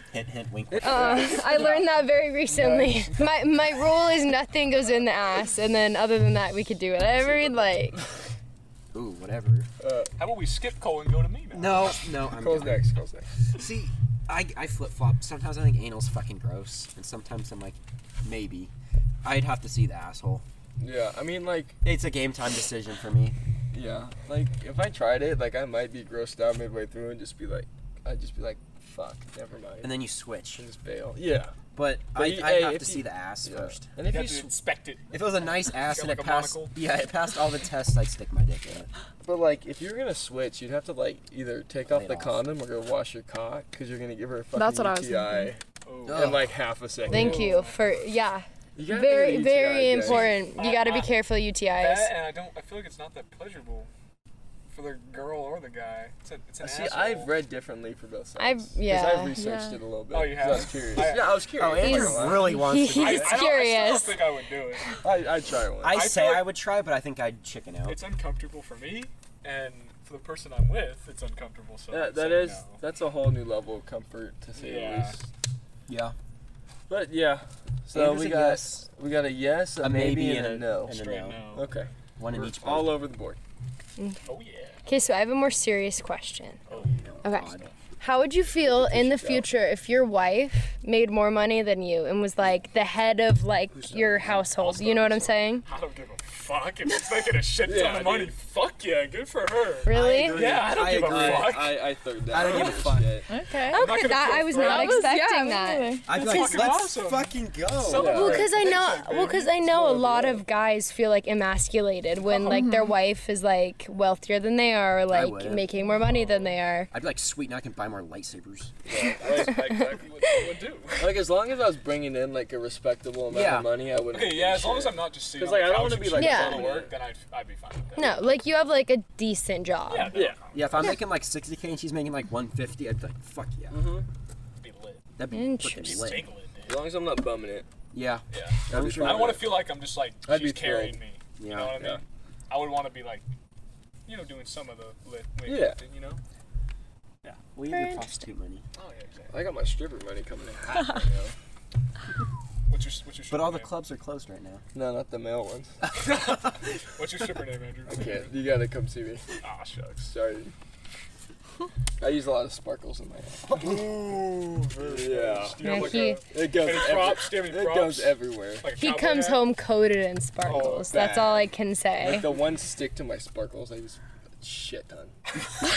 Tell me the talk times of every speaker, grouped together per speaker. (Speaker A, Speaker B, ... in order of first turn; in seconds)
Speaker A: 0.1-1.4, 8.9-9.7, 11.5-12.8, 13.6-18.7, 19.2-20.4, 21.8-23.4, 29.8-30.6, 31.7-33.9, 35.1-38.9, 41.9-42.4, 46.1-46.5, 61.0-63.5, 65.8-68.0, 75.9-76.2, 77.9-78.9, 79.8-81.5, 82.2-83.0, 87.0-87.7, 99.9-101.7, 102.3-103.1, 106.1-108.4, 115.1-115.7, 116.9-118.7, 123.3-123.7, 130.5-133.8, 135.2-136.3, 137.9-139.6, 141.4-141.8, 147.5-148.7, 153.3-154.6
Speaker B: 0.7-1.7, 2.5-3.2, 9.8-10.1, 12.2-13.3, 20.8-21.8, 23.7-30.0, 30.6-31.5, 32.1-34.5, 39.2-47.6, 48.8-50.3, 56.6-62.5, 65.0-66.0, 71.9-75.2, 76.9-81.0, 81.5-83.4, 88.6-89.5, 97.6-98.3, 100.3-103.3, 107.9-108.6, 109.6-110.5, 118.9-119.8, 121.0-127.0, 130.1-130.4, 133.7-134.1, 136.7-137.7, 138.7-139.7, 140.3-141.0, 141.8-142.0, 145.5-145.8, 149.3-151.3, 154.7-155.8, 157.9-159.3, 160.1-160.5, 162.0-163.9, 164.8-168.7, 170.8-171.5, 172.0-175.2
Speaker C: 0.8-8.0, 47.1-52.1, 58.4-59.4, 61.8-64.2, 84.0-84.2, 84.9-86.6, 87.2-95.7, 99.8-100.4, 103.6-106.0, 108.0-116.9, 126.1-126.7, 128.0-130.2, 135.3-136.2, 147.7-148.3, 165.6-166.2, 168.8-172.3
Speaker D: 1.3-1.9, 10.2-12.0, 34.0-36.8, 45.8-47.8, 50.0-51.2, 51.8-53.9, 54.7-57.3, 60.1-61.8, 63.0-65.0, 65.9-66.5, 67.8-72.8, 74.6-75.2, 80.9-81.7, 84.3-84.8, 86.7-87.0, 94.2-103.0, 103.7-105.1, 106.1-109.6, 112.3-112.6, 115.8-116.6, 119.2-121.3, 124.1-128.3, 129.9-130.9, 134.6-135.0, 135.8-136.9, 138.3-143.2, 144.1-146.2, 148.7-149.4, 152.7-153.8, 156.1-158.3, 159.4-160.1, 163.5-169.5, 170.4-171.1
Speaker E: 44.5-45.6, 59.3-59.8, 103.3-106.4, 112.5-112.9